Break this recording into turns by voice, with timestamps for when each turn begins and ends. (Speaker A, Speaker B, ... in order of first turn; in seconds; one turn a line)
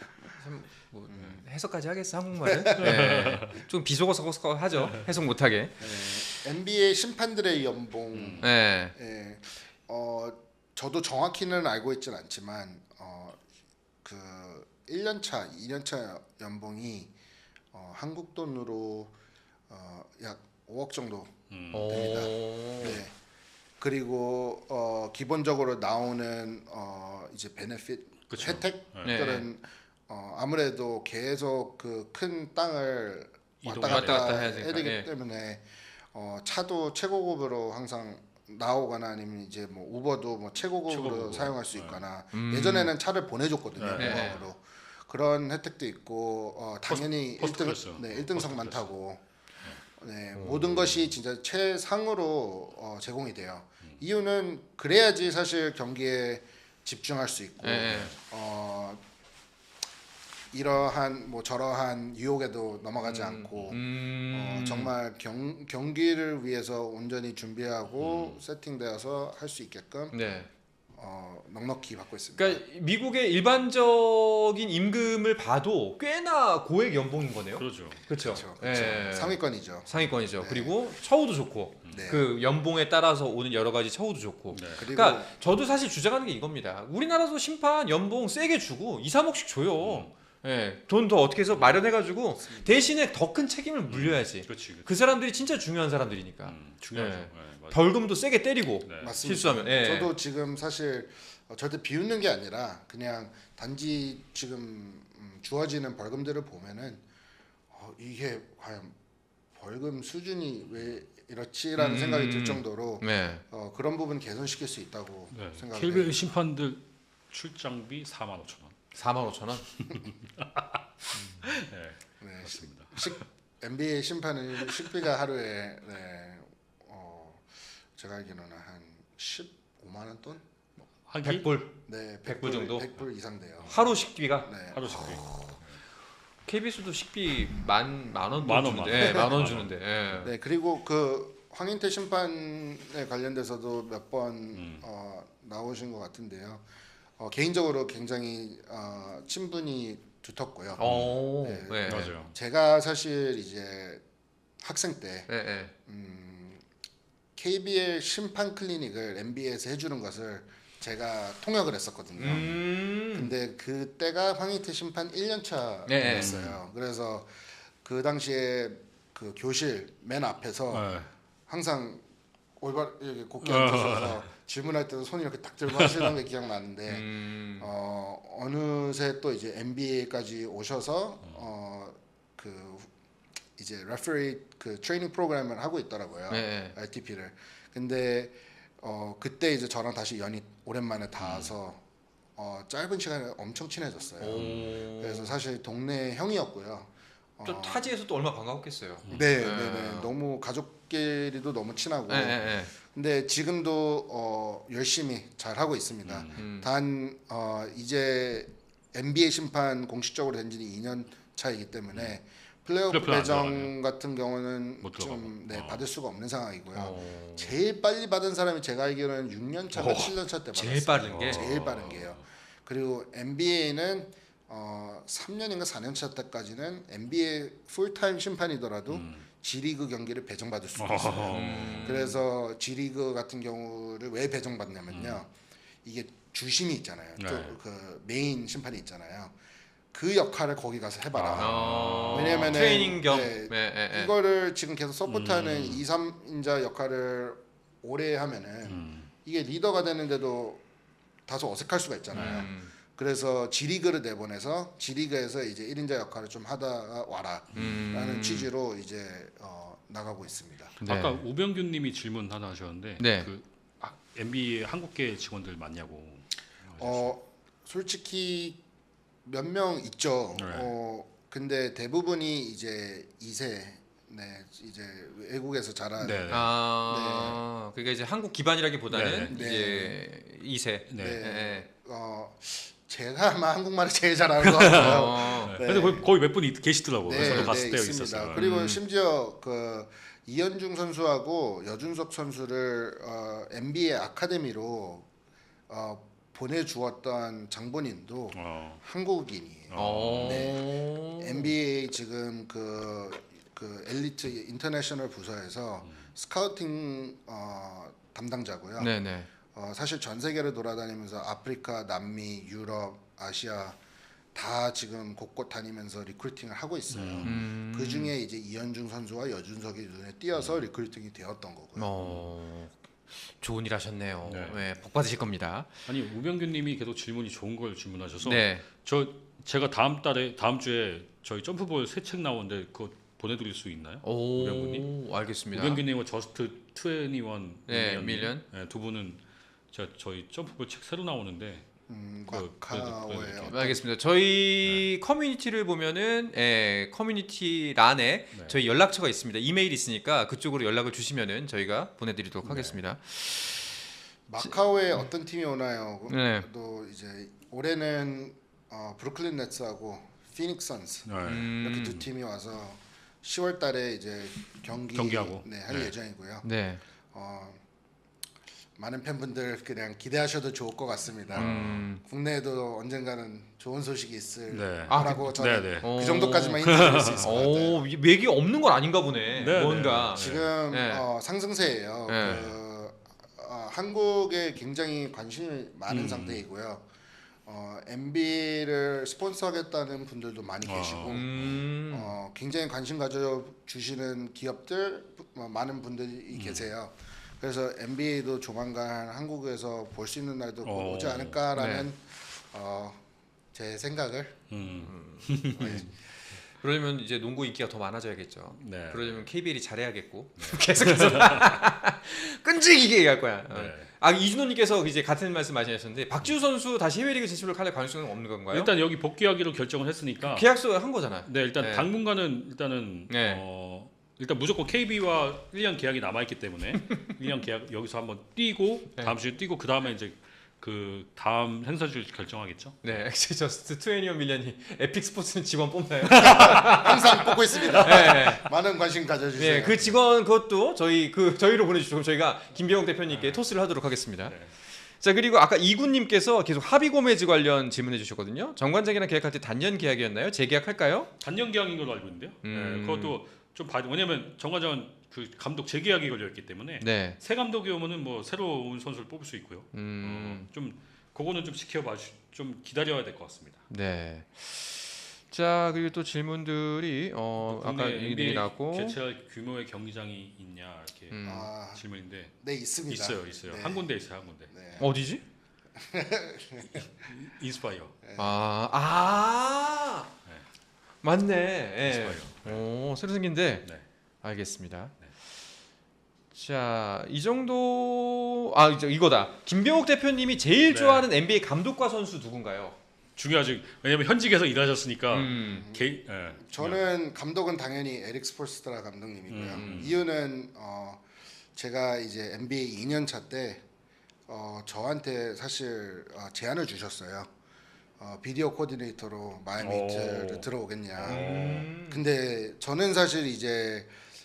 Speaker A: 0.4-5.9
Speaker B: 2.5-3.1
Speaker C: 2.8-3.6
Speaker B: 5.8-13.4
Speaker C: 8.1-8.5
Speaker A: 8.4-8.9
Speaker B: 14.0-17.1
Speaker B: 17.7-19.1
Speaker B: 19.7-21.4
Speaker C: 21.5-22.0
Speaker A: 21.7-23.0
Speaker B: 21.9-23.1
Speaker B: 23.8-49.2
Speaker C: 28.3-29.2
Speaker A: 29.0-29.5
Speaker C: 33.6-34.4
Speaker A: 33.9-35.1
Speaker C: 40.9-42.0
Speaker A: 42.3-42.9
Speaker C: 43.8-44.4
Speaker A: 44.0-44.4
Speaker C: 46.9-48.9
Speaker B: 50.0-59.0
Speaker A: 50.4-50.7
Speaker A: 57.6-58.1
Speaker B: 60.5-70.2
Speaker A: 63.1-64.9
Speaker C: 68.0-68.4
Speaker A: 70.1-70.5
Speaker B: 71.0-72.6
Speaker A: 72.4-100.1
Speaker C: 77.6-78.4
Speaker B: 78.2-80.8
Speaker C: 81.8-82.1
Speaker B: 81.9-82.3
Speaker C: 84.5-84.9
Speaker B: 84.8-85.3
Speaker C: 89.8-90.1
Speaker C: 91.5-91.8
Speaker B: 92.4-92.8
Speaker C: 93.9-94.9
Speaker C: 96.5-97.9
Speaker C: 98.8-99.2
Speaker B: 99.0-107.0
Speaker B: 107.7-109.0
Speaker B: 109.5-116.2
Speaker A: 111.8-113.4
Speaker C: 115.3-118.8
Speaker A: 118.9-119.7
Speaker C: 119.9-120.8
Speaker C: 121.5-123.2
Speaker B: 122.2-130.4
Speaker C: 131.1-131.5
Speaker A: 131.2-132.9
Speaker B: 131.9-133.8
Speaker C: 133.6-133.9
Speaker A: 133.7-134.5
Speaker B: 134.5-135.6
Speaker C: 134.7-135.8
Speaker A: 136.5-140.3
Speaker C: 138.4-139.7
Speaker B: 138.9-139.3
Speaker B: 140.2-146.7
Speaker C: 144.5-144.8
Speaker B: 147.2-154.0
Speaker A: 150.8-152.1
Speaker C: 150.8-151.2
Speaker C: 151.9-152.3
Speaker B: 154.6-155.3
Speaker A: 155.3-155.7
Speaker B: 155.9-156.6
Speaker B: 157.4-170.9
Speaker A: 162.2-163.3
Speaker A: 165.9-166.3
Speaker C: 166.1-166.6
Speaker C: 170.7-171.1
Speaker B: 171.5-172.0
Speaker B: 172.6-182.9
Speaker C: 173.4-174.2
Speaker A: 176.9-177.7
Speaker B: 183.6-191.8
Speaker A: 186.3-186.8
Speaker C: 191.2-191.5
Speaker B: 192.4-197.8
Speaker A: 194.2-195.3
Speaker C: 194.3-194.7
Speaker A: 197.4-200.1
Speaker B: 199.1-235.3
Speaker A: 202.1-202.7
Speaker C: 206.1-206.5
Speaker A: 206.4-206.7
Speaker C: 212.9-213.7
Speaker C: 214.8-215.8
Speaker A: 216.7-217.5
Speaker C: 219.7-220.2
Speaker A: 220.5-221.5
Speaker C: 221.1-222.2
Speaker C: 228.9-229.3
Speaker C: 230.8-232.0
Speaker A: 231.3-232.2
Speaker C: 234.9-235.2
Speaker B: 235.8-239.3
Speaker C: 237.2-237.6
Speaker B: 239.9-250.6
Speaker C: 241.2-242.7
Speaker A: 241.4-244.1
Speaker C: 245.1-245.8
Speaker C: 248.7-249.1
Speaker B: 251.3-260.8
Speaker C: 252.1-252.5
Speaker A: 252.2-252.7
Speaker A: 257.6-258.5
Speaker C: 260.8-267.1
Speaker A: 260.8-261.2
Speaker A: 263.0-263.3
Speaker B: 266.8-268.6
Speaker B: 269.2-276.3
Speaker C: 270.4-270.7
Speaker C: 276.0-276.5
Speaker A: 276.3-281.7
Speaker B: 276.9-277.4
Speaker C: 278.9-279.3
Speaker B: 279.3-280.0
Speaker C: 280.9-281.2
Speaker B: 280.9-286.1
Speaker C: 284.4-288.4
Speaker A: 284.7-285.6
Speaker B: 287.1-295.1
Speaker A: 287.2-287.5
Speaker A: 288.4-288.8
Speaker B: 295.7-308.9
Speaker C: 298.3-298.8
Speaker C: 299.7-300.6
Speaker A: 299.8-301.5
Speaker C: 305.8-306.1
Speaker A: 308.8-309.3
Speaker B: 309.5-313.8
Speaker B: 314.4-321.9
Speaker C: 316.9-317.4
Speaker A: 317.2-318.1
Speaker A: 321.8-325.7
Speaker C: 322.0-322.3
Speaker C: 324.2-324.6
Speaker C: 325.9-334.9
Speaker A: 328.2-328.6
Speaker A: 334.0-335.8
Speaker C: 335.5-341.7
Speaker A: 337.7-338.4
Speaker B: 341.9-343.8
Speaker C: 342.3-343.6
Speaker A: 343.5-353.7
Speaker C: 352.4-352.8
Speaker B: 354.3-366.5
Speaker A: 356.1-356.5
Speaker C: 361.1-362.0
Speaker A: 361.2-362.0
Speaker C: 364.9-365.9
Speaker A: 366.4-366.8
Speaker B: 367.1-367.6
Speaker B: 368.8-377.8
Speaker C: 371.3-371.8
Speaker A: 371.4-372.0
Speaker C: 374.5-375.9
Speaker A: 374.9-381.1
Speaker C: 376.6-377.3
Speaker C: 379.4-380.5
Speaker B: 380.1-386.9
Speaker A: 382.1-382.4
Speaker C: 382.2-382.5
Speaker C: 385.9-386.4
Speaker B: 387.5-403.0
Speaker C: 390.6-391.2
Speaker A: 391.1-392.1
Speaker C: 396.3-396.7
Speaker C: 400.6-401.4
Speaker A: 401.6-401.9
Speaker B: 403.5-404.4
Speaker C: 404.5-405.9
Speaker A: 404.8-405.9
Speaker B: 405.6-405.9
Speaker A: 406.5-418.7
Speaker C: 408.6-409.3
Speaker C: 410.4-411.6
Speaker C: 413.5-413.9
Speaker C: 418.5-420.5
Speaker A: 420.3-421.9
Speaker C: 421.2-433.0
Speaker A: 423.1-423.4
Speaker A: 432.8-438.5
Speaker C: 436.1-436.7
Speaker B: 436.2-439.9
Speaker C: 437.7-438.1
Speaker A: 439.4-444.4
Speaker C: 443.1-443.4
Speaker C: 444.2-444.5
Speaker A: 445.0-451.1
Speaker C: 451.2-463.7
Speaker A: 452.4-453.2
Speaker A: 456.8-457.2
Speaker A: 459.7-460.5
Speaker A: 463.7-469.0
Speaker C: 467.4-472.3
Speaker A: 471.1-471.5
Speaker B: 471.2-471.8
Speaker B: 472.4-473.9
Speaker C: 472.9-474.5
Speaker B: 474.5-474.9
Speaker A: 474.8-475.2
Speaker B: 475.8-476.9
Speaker C: 476.7-478.0
Speaker B: 478.0-478.4
Speaker A: 478.2-480.1
Speaker A: 481.0-483.7
Speaker C: 481.8-482.6
Speaker A: 484.2-485.0
Speaker A: 486.3-492.8
Speaker C: 490.7-491.1
Speaker C: 493.2-496.8
Speaker A: 495.1-495.7
Speaker B: 495.4-495.8
Speaker B: 496.4-501.0
Speaker C: 499.3-500.0
Speaker A: 499.6-499.8
Speaker B: 501.6-503.6
Speaker B: 504.3-507.3
Speaker B: 508.0-513.9
Speaker C: 509.6-511.7
Speaker A: 511.1-512.0